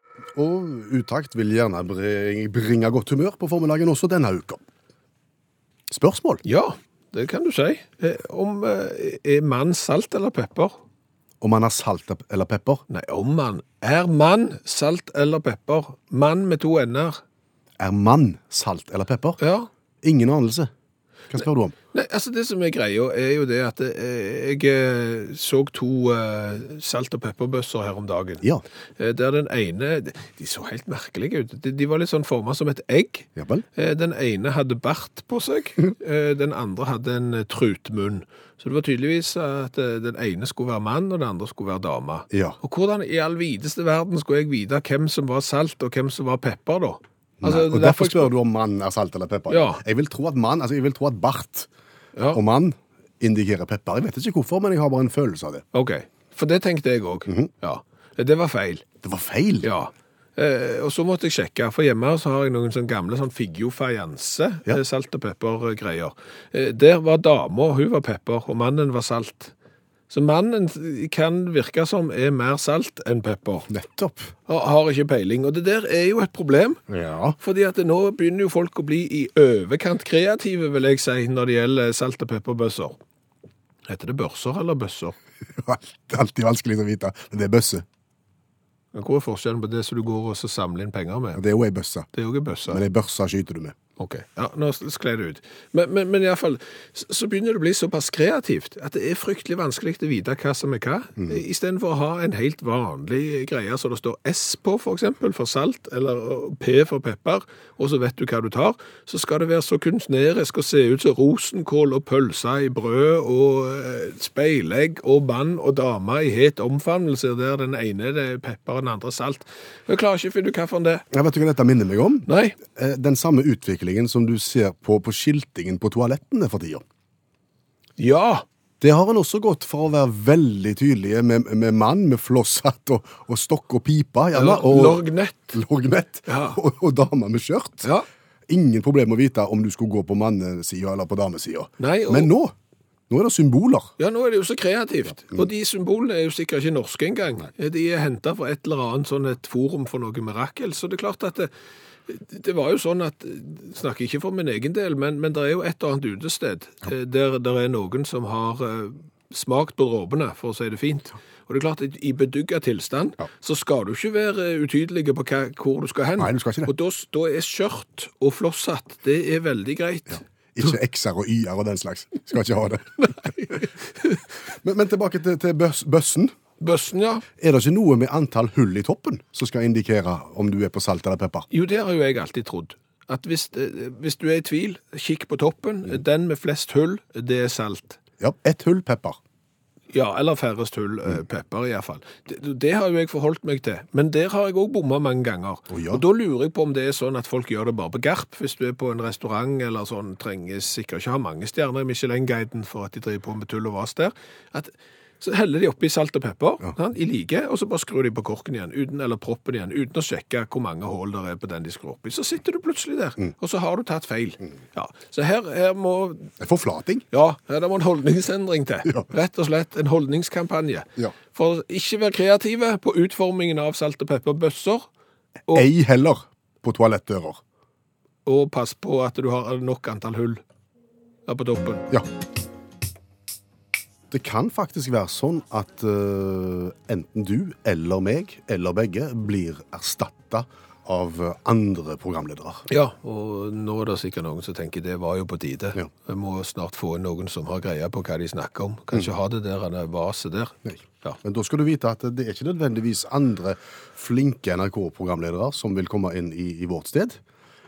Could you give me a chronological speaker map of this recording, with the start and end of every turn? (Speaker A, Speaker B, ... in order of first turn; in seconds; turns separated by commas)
Speaker A: 0.3-4.6, Speaker A: 5.9-6.4, Speaker B: 6.4-10.8, Speaker A: 11.4-12.8, Speaker B: 12.9-17.2, Speaker A: 17.8-19.4, Speaker B: 19.4-19.7, Speaker A: 20.0-20.7, Speaker A: 21.3-21.8, Speaker B: 21.9-28.5, Speaker B: 29.0-48.3, Speaker A: 33.4-33.6, Speaker A: 42.3-42.6, Speaker A: 47.4-51.7, Speaker B: 49.5-49.8, Speaker B: 52.2-52.4, Speaker A: 52.3-55.6, Speaker B: 55.7-58.8, Speaker A: 59.0-59.7, Speaker B: 59.6-69.5, Speaker B: 70.1-73.7, Speaker A: 73.7-74.3, Speaker B: 74.5-76.8, Speaker A: 76.9-77.4, Speaker B: 77.4-83.0, Speaker B: 83.9-85.2, Speaker A: 85.5-87.8, Speaker B: 88.9-91.4, Speaker A: 91.3-92.1, Speaker B: 92.1-92.8, Speaker A: 92.7-93.8, Speaker B: 94.0-121.0, Speaker A: 101.2-101.4, Speaker A: 121.1-126.8, Speaker B: 122.3-122.6, Speaker B: 128.0-128.4, Speaker A: 128.8-137.9, Speaker B: 134.3-135.6, Speaker B: 136.3-136.6, Speaker A: 138.5-142.5, Speaker B: 141.8-142.3, Speaker A: 143.1-143.9, Speaker B: 144.0-151.5, Speaker B: 152.1-170.2, Speaker A: 166.2-166.7, Speaker A: 170.6-173.6, Speaker B: 173.1-174.2, Speaker A: 174.6-176.3, Speaker B: 176.6-177.2, Speaker A: 177.4-181.5, Speaker B: 181.5-188.0, Speaker A: 188.2-189.2, Speaker B: 189.9-216.3, Speaker A: 195.7-196.0, Speaker A: 216.4-217.1, Speaker B: 217.1-224.9, Speaker A: 225.5-227.4, Speaker B: 228.2-230.4, Speaker B: 231.3-231.9, Speaker A: 234.1-242.7, Speaker B: 242.7-251.2, Speaker A: 250.7-257.2